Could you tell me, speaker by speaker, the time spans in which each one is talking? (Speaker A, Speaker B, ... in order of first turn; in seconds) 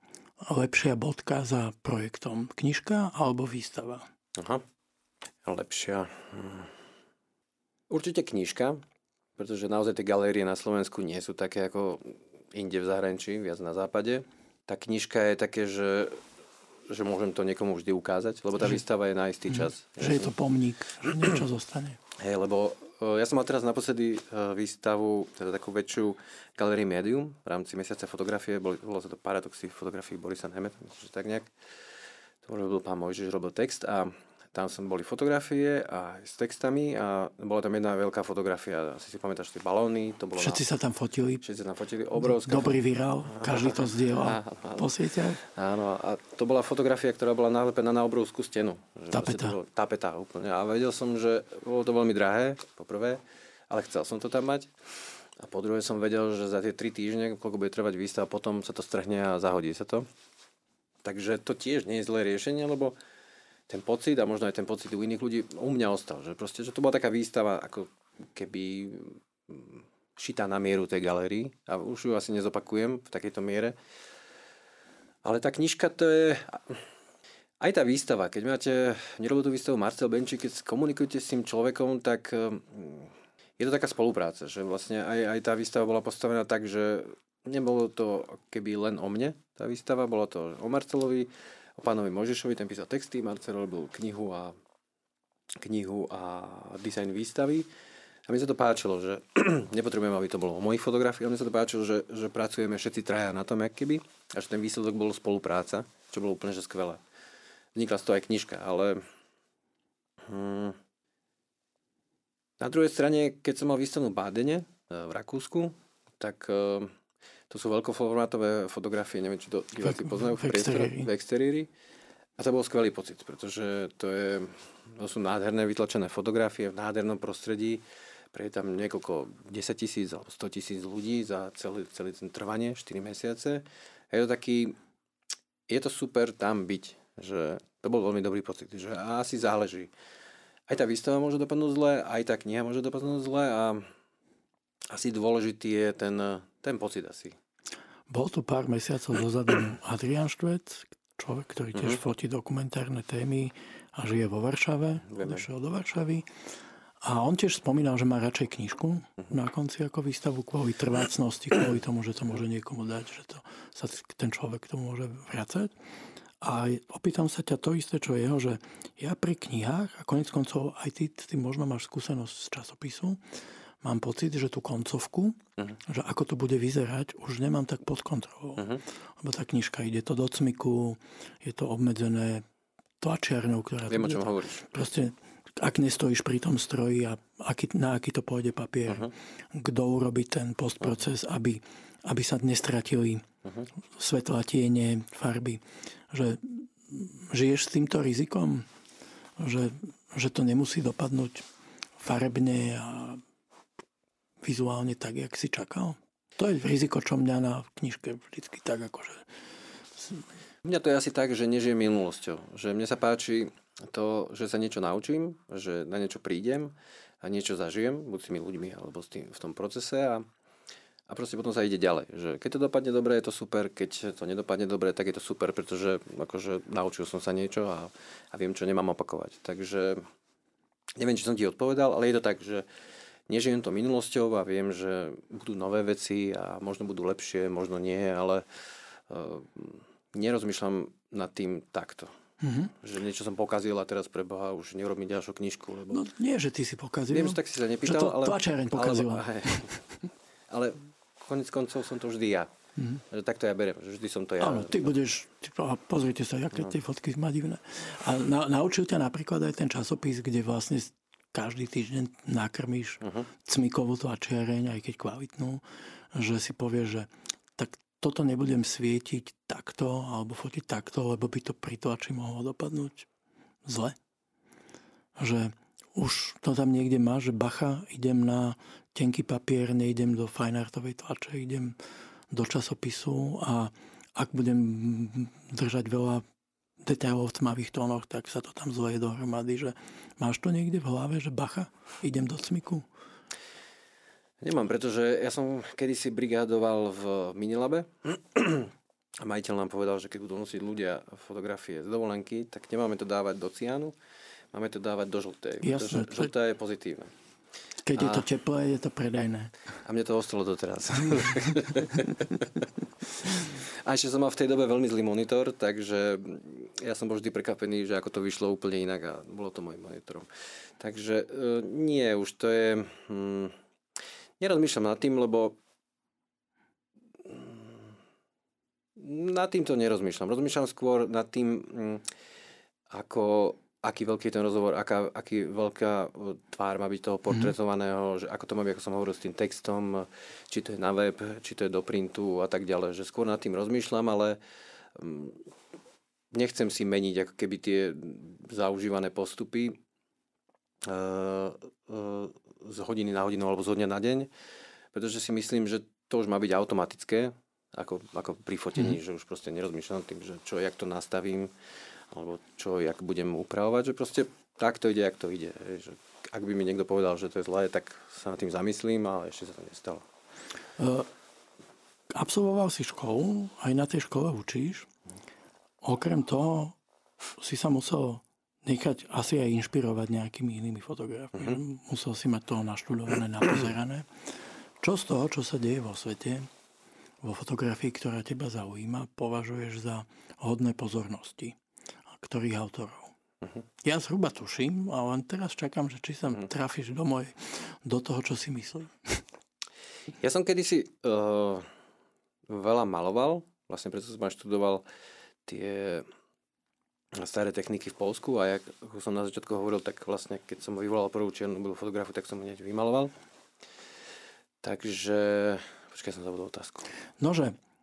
Speaker A: 0.4-4.0, 19.6-22.0, 40.4-41.4, 42.2-45.4, 49.1-49.5, 119.8-121.1, 148.1-156.3, 157.0-165.7, 166.4-173.2, 173.8-182.4, 183.0-193.2, 193.9-198.7, 199.4-201.4, 202.0-203.2, 204.4-209.3, 209.9-210.2, 242.4-242.7, 245.9-249.8, 252.8-253.0, 254.4-273.1, 273.6-273.9, 275.2-281.8, 282.3-286.2, 286.8-292.9, 305.6-306.3, 307.8-309.5, 370.8-371.1, 372.1-374.9, 375.8-376.8, 377.4-384.1, 384.8-386.5, 387.2-391.6, 392.1-393.1, 393.8-399.2, 417.2-417.6
Speaker B: 4.3-4.6, 5.4-6.7, 7.9-8.8, 9.4-16.2, 16.9-20.3, 21.0-21.4, 22.2-31.5, 32.4-40.6, 41.4-42.8, 43.3-54.7, 55.4-60.1, 61.0-63.0, 63.7-73.8, 75.2-76.8, 77.6-94.5, 95.6-97.7, 98.3-107.0, 107.7-109.0, 110.2-110.8, 112.6-116.9, 117.5-121.7, 122.4-134.7, 135.7-139.9, 140.7-143.9, 144.9-147.4, 151.7-152.0, 155.2-155.4, 178.6-178.8, 183.9-184.7, 210.6-220.2, 221.1-230.0, 231.0-232.7, 233.3-238.4, 239.1-242.1, 242.8-246.1, 247.1-249.7, 250.5-252.5, 253.1-254.9, 263.0-263.3, 294.4-303.9, 304.5-307.1, 307.9-308.3, 309.8-312.7, 313.2-323.5, 324.4-325.6, 327.2-327.9, 328.9-332.0, 332.9-344.4, 344.9-345.4, 346.3-349.8, 350.8-354.3, 354.9-361.5, 362.1-370.1, 400.2-401.7, 402.5-404.8, 405.4-406.1, 407.1-413.1, 414.6-416.9